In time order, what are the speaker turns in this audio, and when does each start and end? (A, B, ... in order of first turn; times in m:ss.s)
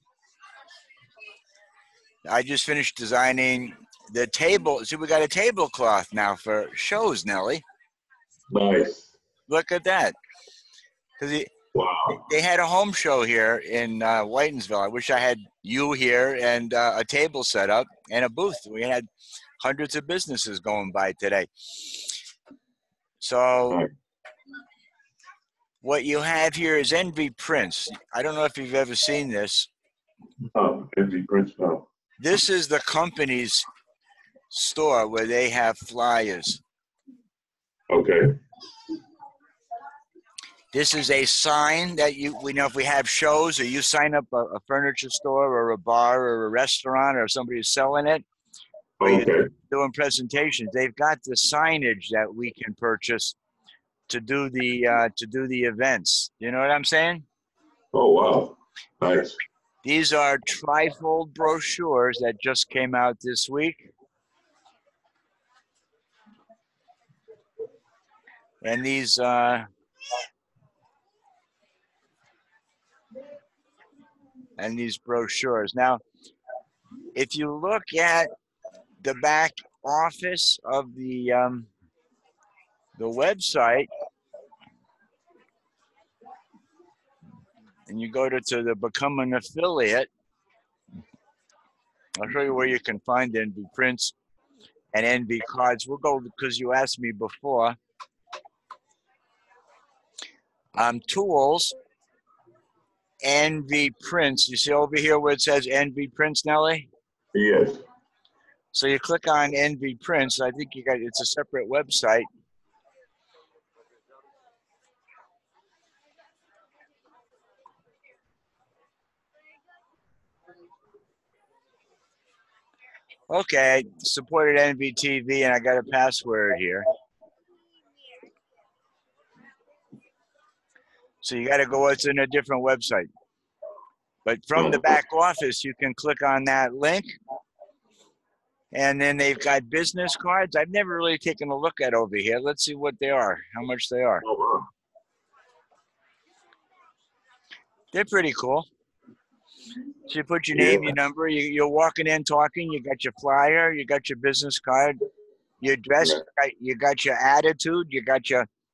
0:02.2-0:07.6 A
0:08.5-0:09.1 B
0:09.5-0:10.1 A
0:11.2-0:11.5 A
0:11.7-0:12.2 B
0:12.1-0:19.0 A
0:19.6-0:22.0 A
0:23.2-0:23.8 A
0:25.8-0:29.7 A
0:30.5-0:31.8 B
0:32.2-0:33.6 A
0:34.5-0:36.6 A
0:37.9-0:38.4 B
0:40.7-0:48.2 A
0:49.0-0:49.5 B
0:49.0-0:53.4 A
0:54.1-0:57.2 A
0:57.9-0:59.4 B
0:59.8-1:03.9 A
1:08.6-1:09.7 A
1:14.6-1:16.0 A
1:17.1-1:18.3 A
1:19.0-1:21.7 A
1:23.0-1:23.9 A
1:27.9-1:30.1 A
1:32.2-1:34.1 A
1:34.9-1:37.8 A
1:40.8-1:41.7 A
1:43.2-1:46.9 A
1:47.3-1:47.8 B
1:48.7-1:52.3 A
2:03.3-2:06.8 A
2:11.2-2:13.1 A
2:14.2-2:17.1 A
2:18.7-2:24.2 A
2:24.2-2:24.7 B
2:27.9-2:28.7 A
2:30.1-2:35.0 A
2:30.5-2:31.0 B
2:35.6-2:38.5 A